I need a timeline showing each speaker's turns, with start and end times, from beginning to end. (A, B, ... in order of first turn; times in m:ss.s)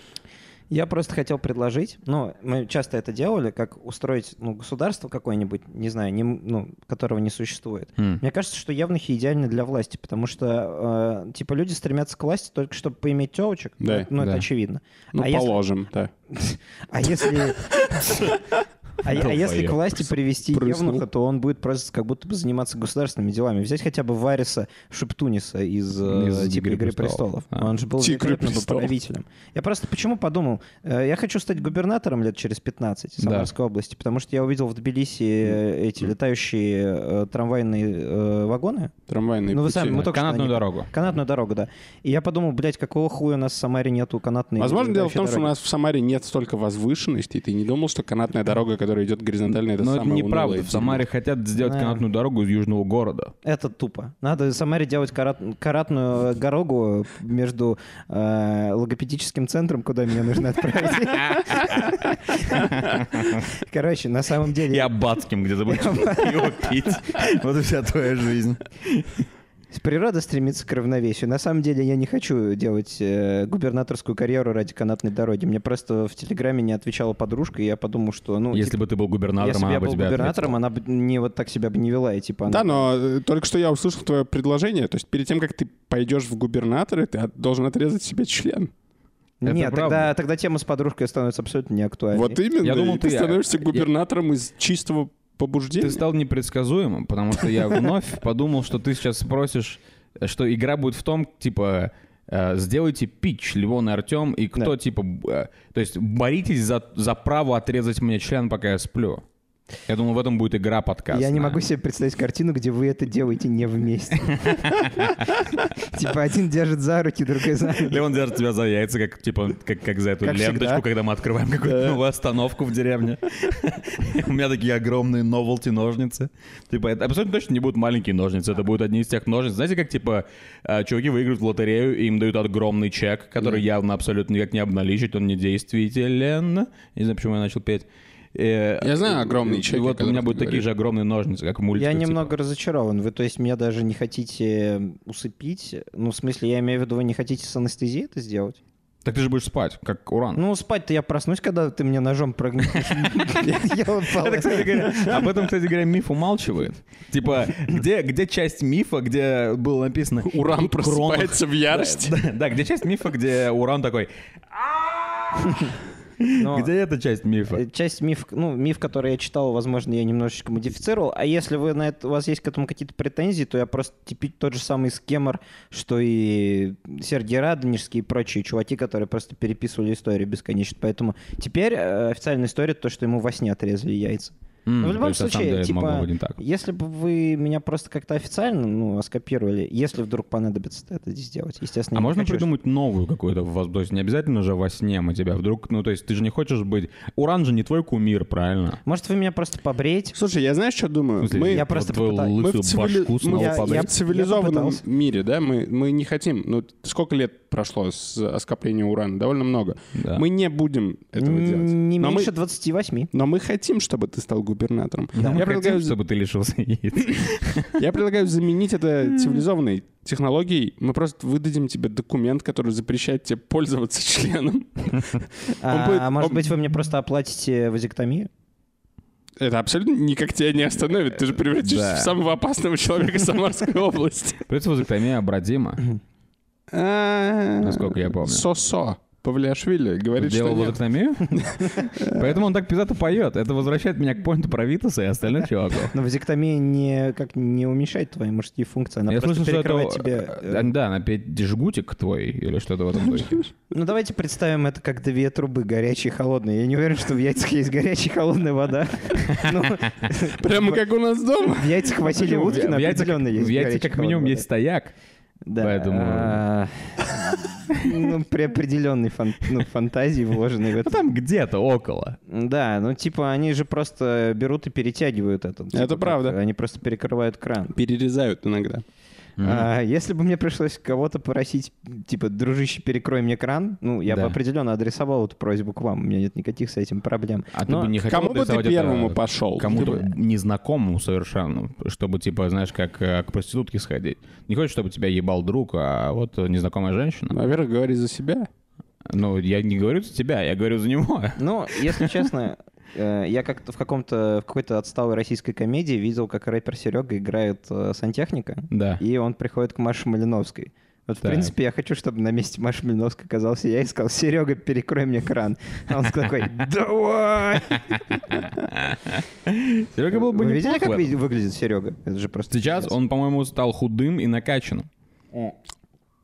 0:00.7-0:15.6 A
0:13.8-0:14.1 B
0:14.2-0:14.4 C
0:15.1-0:16.1 B
0:16.3-0:18.4 A
0:19.0-0:38.9 A
0:19.0-0:20.0 C
0:20.5-0:21.0 B
0:26.0-0:27.7 C
0:28.0-0:28.9 B
0:33.2-0:33.5 C
0:39.1-0:40.1 B
0:39.5-0:45.5 A
0:39.9-0:40.9 C
0:44.6-0:51.0 B
0:49.5-0:53.3 C
0:51.6-0:52.0 A
0:53.4-1:03.0 A
1:01.3-1:01.9 C
1:02.5-1:03.4 C
1:03.5-1:04.9 A
1:04.7-1:09.3 C
1:05.7-1:07.1 A
1:09.7-1:18.8 A
1:18.5-1:20.6 C
1:19.4-1:22.9 A
1:22.5-1:28.7 B
1:29.4-1:32.4 A
1:29.4-1:30.1 C
1:32.1-1:36.0 B
1:32.6-1:33.9 C
1:35.8-1:49.2 C
1:49.9-1:51.6 C
1:51.1-1:55.0 A
1:54.3-1:55.2 C
1:55.6-1:58.0 A
1:57.7-2:22.3 C
2:00.2-2:00.8 A
2:01.7-2:02.0 B
2:18.8-2:20.6 B
2:21.7-2:28.6 A
2:29.0-2:30.4 C
2:30.4-2:35.3 A
2:34.1-2:47.6 C
2:40.3-2:42.2 B
2:45.4-2:45.7 A
2:46.3-2:46.7 A
2:47.5-3:12.5 A
3:04.6-3:06.4 C
3:11.9-3:18.8 C
3:18.8-3:20.1 A
3:20.1-3:21.7 B
3:21.2-3:23.9 C
3:21.5-3:22.4 A
3:22.4-3:32.3 B
3:23.3-3:24.8 A
3:30.0-3:30.2 C
3:31.2-3:33.1 A
3:33.1-3:36.0 B
3:35.2-3:35.5 A
3:35.2-3:37.8 C
3:37.8-3:46.4 B
3:45.6-3:48.3 A
3:49.4-3:54.4 B
3:51.6-3:52.1 C
3:54.5-3:55.8 C
3:56.7-4:00.8 B
3:57.6-3:58.5 C
4:00.2-4:05.9 C
4:01.5-4:02.4 B
4:05.9-4:10.7 A
4:09.1-4:13.4 C
4:13.1-4:13.4 B
4:13.7-4:20.8 A
4:20.4-4:22.5 B
4:21.5-4:24.4 A
4:22.2-4:24.9 C
4:25.4-4:31.0 A
4:25.6-4:26.4 C
4:30.8-4:32.2 C
4:32.3-4:37.7 A
4:35.7-4:36.4 B
4:37.7-4:38.8 B
4:39.4-4:39.7 C
4:39.4-4:47.9 A
4:44.1-4:44.4 C
4:47.5-4:57.3 C
4:48.0-4:50.1 B
4:57.3-4:58.5 B
4:59.1-5:02.2 C
5:01.4-5:18.5 A
5:08.7-5:09.0 C
5:11.2-5:11.5 C
5:18.3-5:21.1 C
5:20.1-5:22.9 A
5:22.5-5:24.9 C